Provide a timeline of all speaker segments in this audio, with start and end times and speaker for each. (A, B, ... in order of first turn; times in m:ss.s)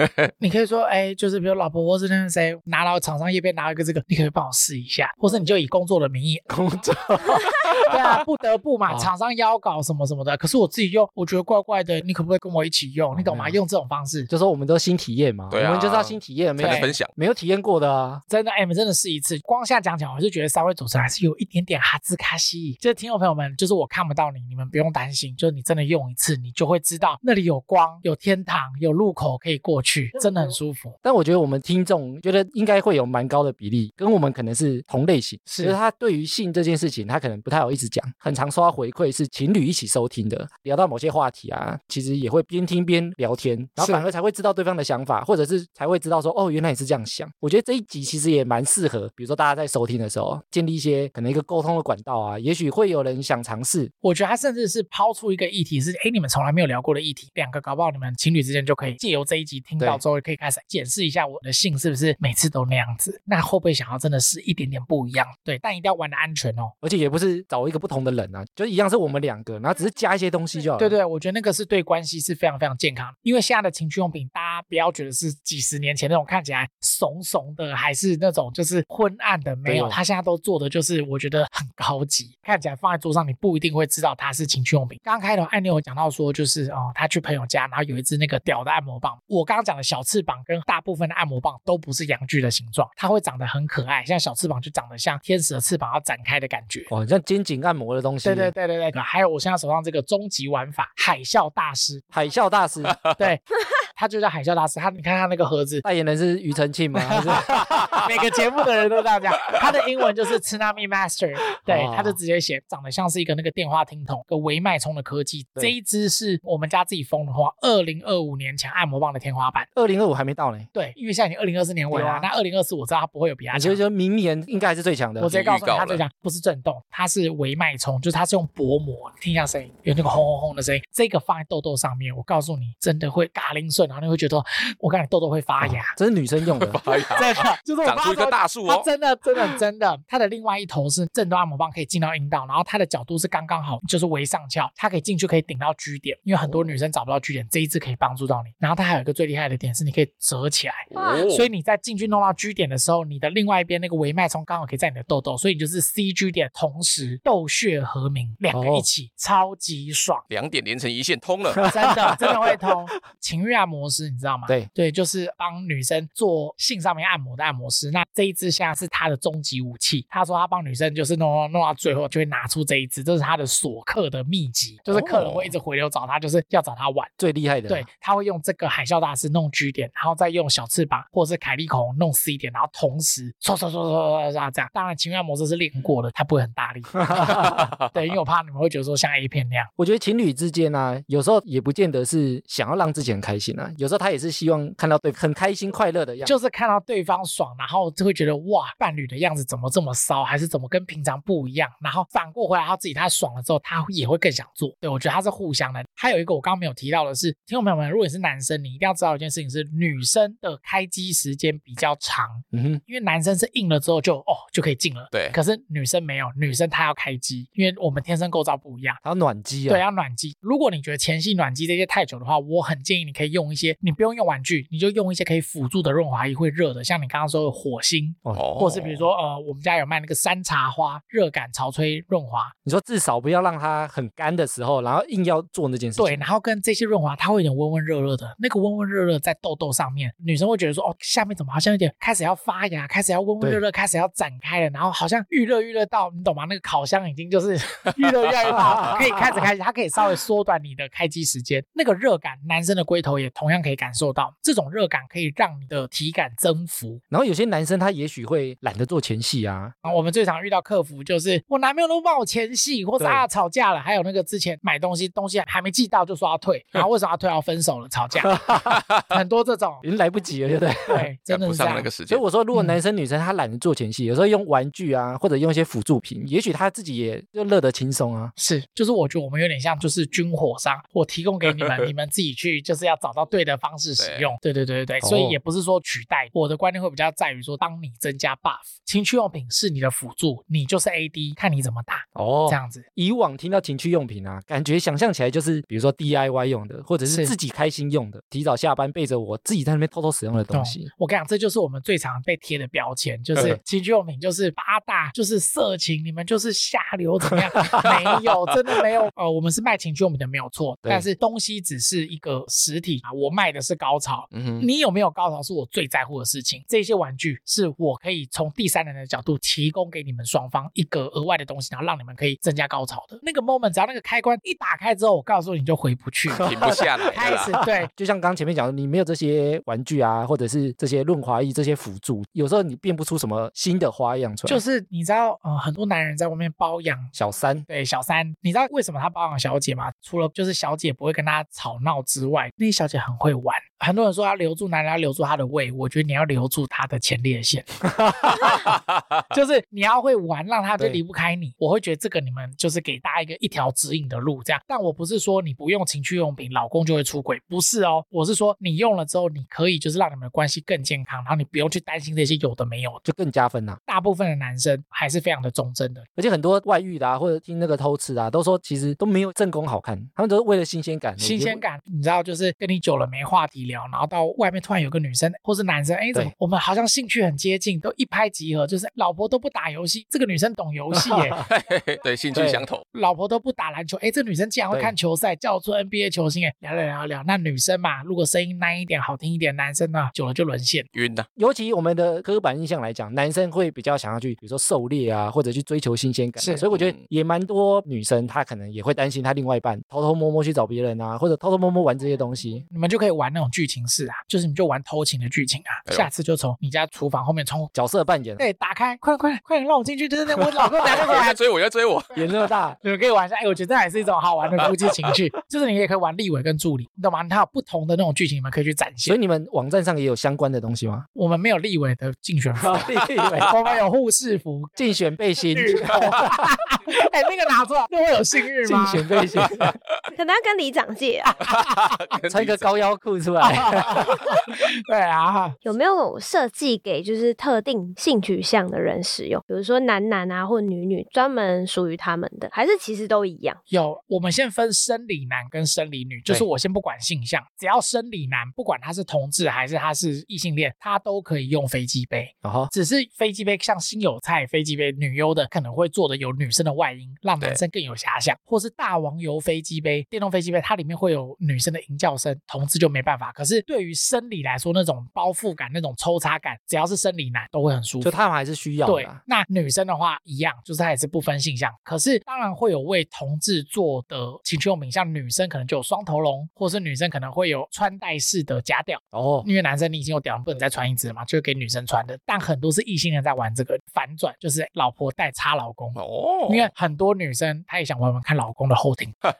0:00.4-0:06.5 A
0:06.5-0:08.0 B
0:07.9-0:14.3 A
0:13.1-0:13.6 B
0:14.3-0:18.2 B
0:15.5-0:17.1 C
0:16.6-0:17.0 A
0:18.3-0:31.0 A
0:31.0-0:53.9 B
0:35.5-0:35.8 A
0:43.8-0:44.0 A
0:54.0-1:06.7 A
1:06.8-1:11.0 B
1:10.8-1:36.9 A
1:19.6-1:20.0 B
1:36.9-1:38.5 B
1:38.2-1:42.1 A
1:42.1-1:43.0 B
1:43.2-1:43.4 A
1:44.0-1:45.8 A
1:45.8-1:48.0 B
1:46.9-1:59.7 A
1:51.6-1:52.2 B
1:59.8-2:00.7 B
2:00.7-2:03.8 A
2:01.9-2:02.3 B
2:03.5-2:05.4 B
2:05.2-2:16.0 A
2:05.3-2:06.0 C
2:15.6-2:16.8 B
2:16.6-2:18.9 C
2:17.1-2:40.3 A
2:26.4-2:26.7 B
2:30.9-2:31.5 C
2:31.0-2:31.3 D
2:38.5-2:38.9 B
2:40.3-2:41.7 C
2:41.7-2:57.1 A
2:54.9-2:55.5 B
2:57.2-2:57.9 B
2:57.7-3:09.7 A
3:07.1-3:07.6 B
3:09.8-3:16.4 B
3:16.2-3:39.0 A
3:32.5-3:32.8 B
3:35.1-3:35.4 C
3:39.0-3:39.8 B
3:39.7-3:52.5 A
3:48.3-3:48.9 C
3:52.6-3:56.2 B
3:56.0-4:17.0 A
4:08.6-4:09.5 B
4:17.1-4:19.7 B
4:19.8-4:28.5 A
4:23.0-4:23.2 B
4:28.3-4:28.8 B
4:29.1-4:29.8 A
4:29.8-4:31.1 B
4:30.9-4:31.9 A
4:31.3-4:32.2 C
4:32.1-4:38.3 B
4:32.5-4:32.8 A
4:38.4-4:52.8 A
4:44.0-4:44.3 C
4:45.0-4:45.4 B
4:52.2-5:00.9 B
4:57.1-4:57.3 A
5:00.5-5:26.5 A
5:14.3-5:14.7 C
5:26.3-5:34.6 B
5:26.4-5:27.6 C
5:27.1-5:27.9 A
5:34.5-5:37.1 A
5:37.2-5:37.7 B
5:37.7-5:47.8 A
5:49.3-6:03.0 A
6:03.0-6:03.8 B
6:03.9-6:06.1 A
6:06.2-6:11.6 B
6:11.2-6:21.4 A
6:21.0-6:21.4 B
6:21.4-6:22.8 C
6:22.3-6:22.7 B
6:22.9-6:30.9 A
6:30.9-6:31.3 C
6:31.4-6:42.6 B
6:36.4-6:36.7 A
6:36.7-6:37.0 C
6:42.7-6:47.7 A
6:47.7-6:48.4 B
6:48.4-6:51.4 A
6:50.8-6:52.2 C
6:52.1-6:52.8 B
6:52.8-6:59.2 A
6:59.0-7:01.1 B
7:01.2-7:04.8 A
7:02.6-7:03.5 B
7:04.8-7:06.4 B
7:05.5-7:09.1 A
7:08.6-7:09.8 B
7:10.2-7:11.4 D
7:11.4-7:12.7 C
7:11.5-7:11.8 A
7:12.3-7:14.1 B
7:13.4-7:15.6 A
7:15.6-7:23.6 D
7:23.7-7:48.1 A
7:32.4-7:32.7 B
7:48.0-7:49.2 B
7:48.8-8:09.2 A
7:59.1-7:59.5 B
8:06.0-8:06.7 C